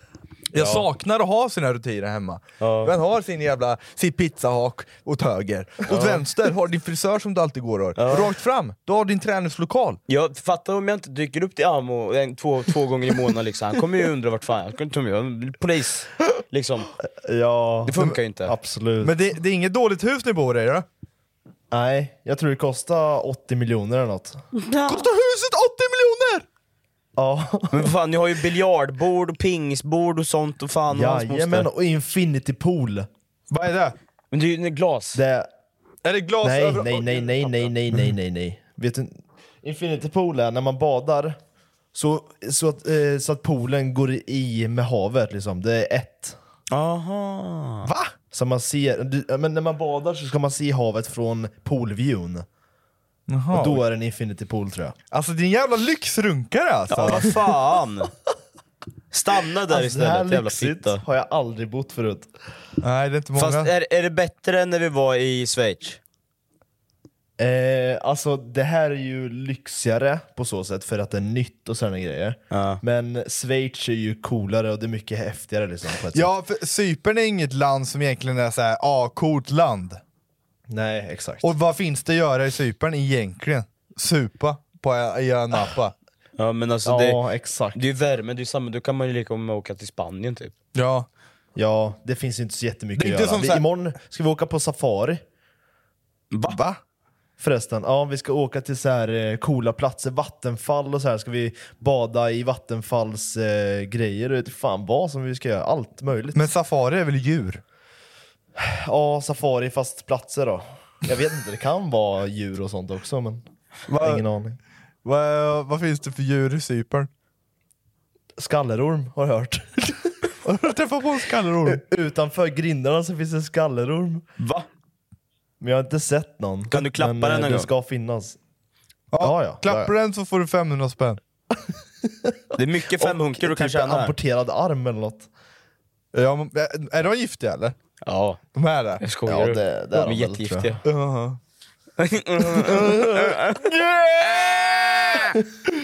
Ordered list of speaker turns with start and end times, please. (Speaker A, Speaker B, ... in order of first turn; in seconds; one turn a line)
Speaker A: 0.5-10.0
Speaker B: 0.6-0.9
Speaker C: 2.6-2.9
Speaker B: 5.9-6.3
Speaker C: 8.0-8.3
Speaker C: 10.1-16.9
Speaker B: 17.2-19.1
Speaker C: 17.9-18.5
Speaker A: 19.0-20.9
Speaker B: 21.7-24.4
Speaker A: 24.9-26.4
Speaker B: 27.2-27.9
Speaker C: 27.7-31.7
Speaker B: 30.9-33.1
Speaker A: 33.5-34.0
Speaker C: 34.3-35.2
Speaker B: 35.1-35.5
Speaker A: 36.0-37.7
Speaker B: 36.4-41.4
Speaker B: 41.9-46.4
Speaker C: 46.7-47.9
Speaker A: 47.9-48.1
Speaker B: 48.3-52.5
Speaker A: 53.3-53.8
Speaker B: 53.5-55.0
Speaker A: 55.1-57.3
Speaker C: 56.9-58.1
Speaker C: 59.1-61.0
Speaker B: 59.7-62.3
Speaker A: 62.8-63.7
Speaker C: 63.4-66.0
Speaker B: 67.4-76.3
Speaker C: 72.5-72.8
Speaker A: 76.1-80.0
Speaker B: 80.7-81.5
Speaker A: 81.4-85.9
Speaker C: 86.4-87.2
Speaker B: 86.9-87.8
Speaker C: 87.8-90.5
Speaker A: 90.8-91.1
Speaker B: 91.6-95.2
Speaker A: 93.0-93.7
Speaker C: 96.3-96.6
Speaker A: 96.5-96.8
Speaker B: 97.4-106.5
Speaker A: 106.3-107.6
Speaker B: 108.6-113.4
Speaker A: 113.9-114.2
Speaker B: 114.0-114.6
Speaker A: 115.0-117.1
Speaker B: 118.4-120.2
Speaker A: 120.4-121.8
Speaker B: 121.7-124.3
Speaker C: 124.4-124.7
Speaker B: 125.6-128.4
Speaker C: 126.7-127.7
Speaker A: 129.1-131.2
Speaker B: 129.2-129.9
Speaker B: 132.1-132.4
Speaker C: 132.6-134.2
Speaker B: 133.0-135.3
Speaker A: 136.1-137.8
Speaker C: 138.0-138.4
Speaker A: 138.6-139.0
Speaker C: 139.0-140.8
Speaker B: 139.3-140.8
Speaker A: 140.8-141.4
Speaker C: 142.0-143.6
Speaker A: 143.6-145.3